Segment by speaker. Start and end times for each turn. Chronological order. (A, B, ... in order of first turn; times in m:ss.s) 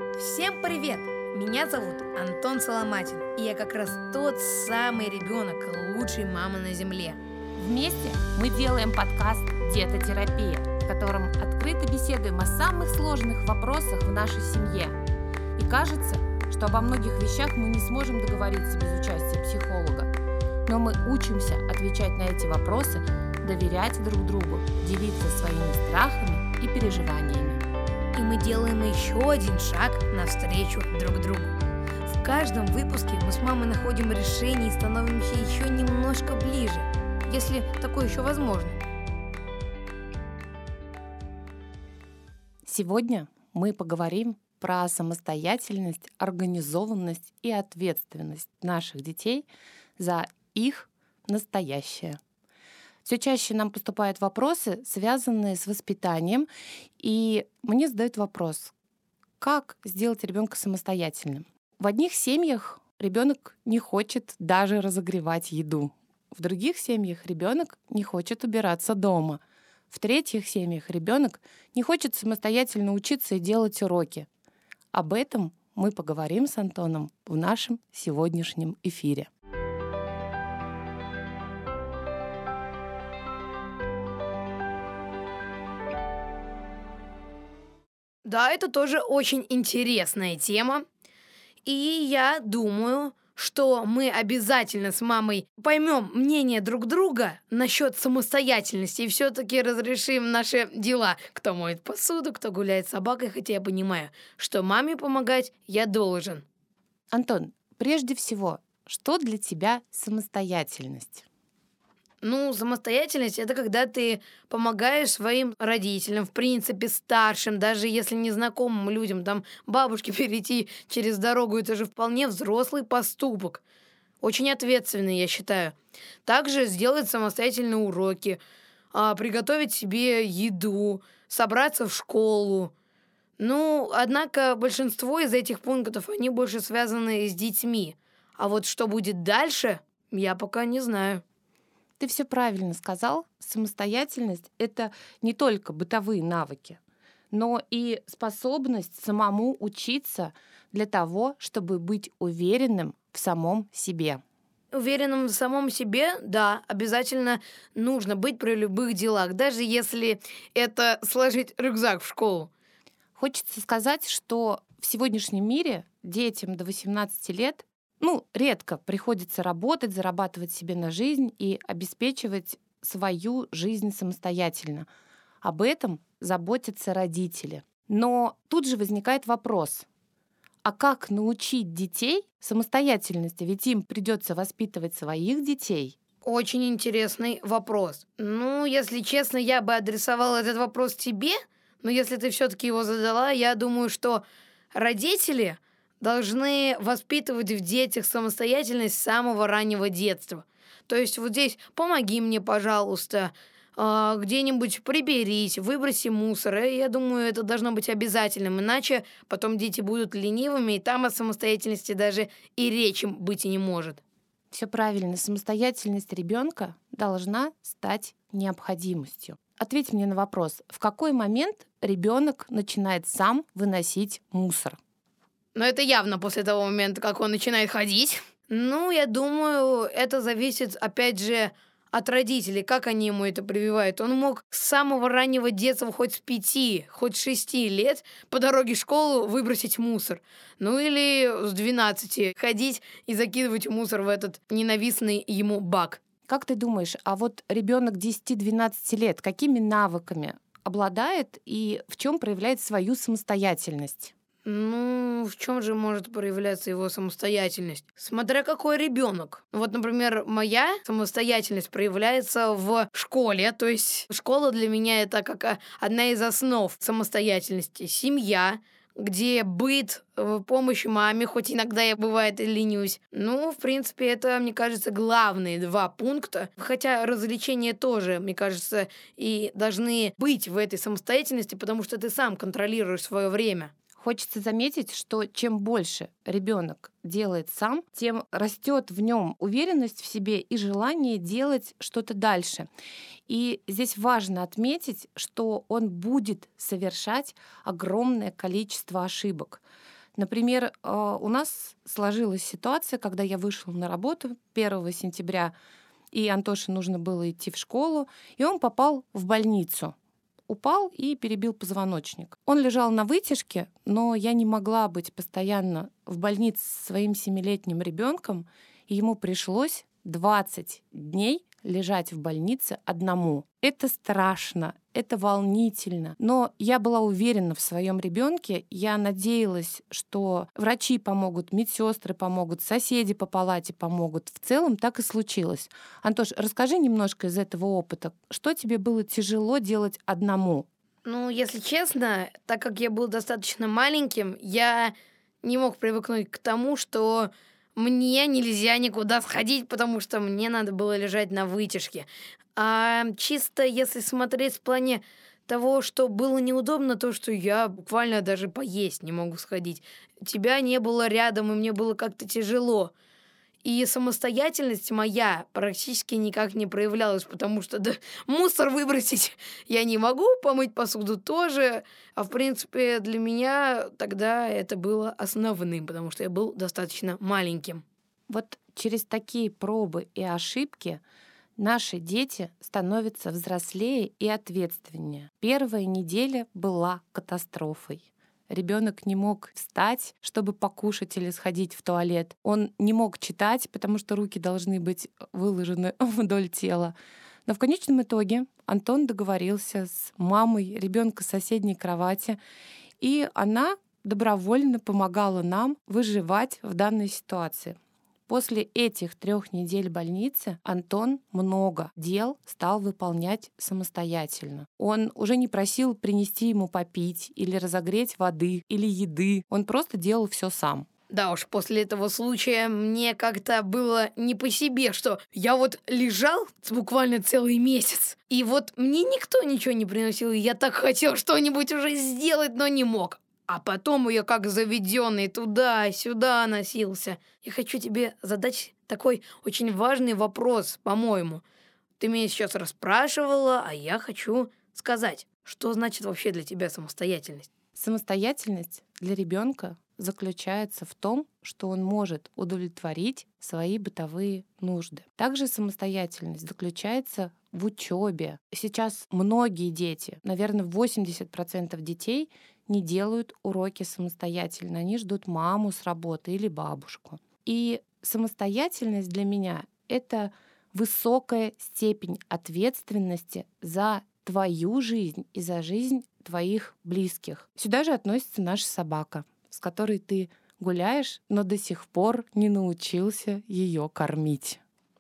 0:00.2-0:07.2 A
0:07.6-0:15.0 B
0:15.6-0:20.1 B
0:20.7-0:27.6 B
0:28.2-0:38.8 A
0:42.6-0:49.5 B
0:50.0-0:52.2 B
0:53.0-0:56.5 B
0:57.0-0:58.7 B
0:59.4-1:14.3 B
1:14.9-1:19.3 B
1:28.2-1:30.8 A
1:31.6-1:46.4 A
1:47.1-1:51.2 B
1:52.2-2:03.6 A
2:04.2-2:08.4 A
2:08.9-2:12.7 A
2:13.4-2:21.2 A
2:22.0-2:26.8 B
2:27.3-2:34.2 B
2:34.7-2:42.5 A
2:43.2-2:54.9 B
2:55.4-2:59.9 B
3:00.6-3:06.0 B
3:06.2-3:34.0 A
3:34.5-3:44.8 B
3:45.6-4:06.0 A
4:06.3-4:14.1 B
4:14.5-4:43.7 A
4:44.0-4:52.7 B
4:53.3-4:59.6 B
5:00.2-5:05.5 B
5:06.1-5:09.9 B
5:10.5-5:40.7 B
5:41.0-6:02.9 A
6:03.6-6:17.8 A
6:18.3-6:21.0 B
6:21.6-6:36.9 B
6:37.5-6:42.4 B
6:43.0-6:47.8 B
6:48.3-7:00.9 B
7:01.1-7:21.4 A
7:22.0-7:27.5 A
7:27.8-8:04.6 B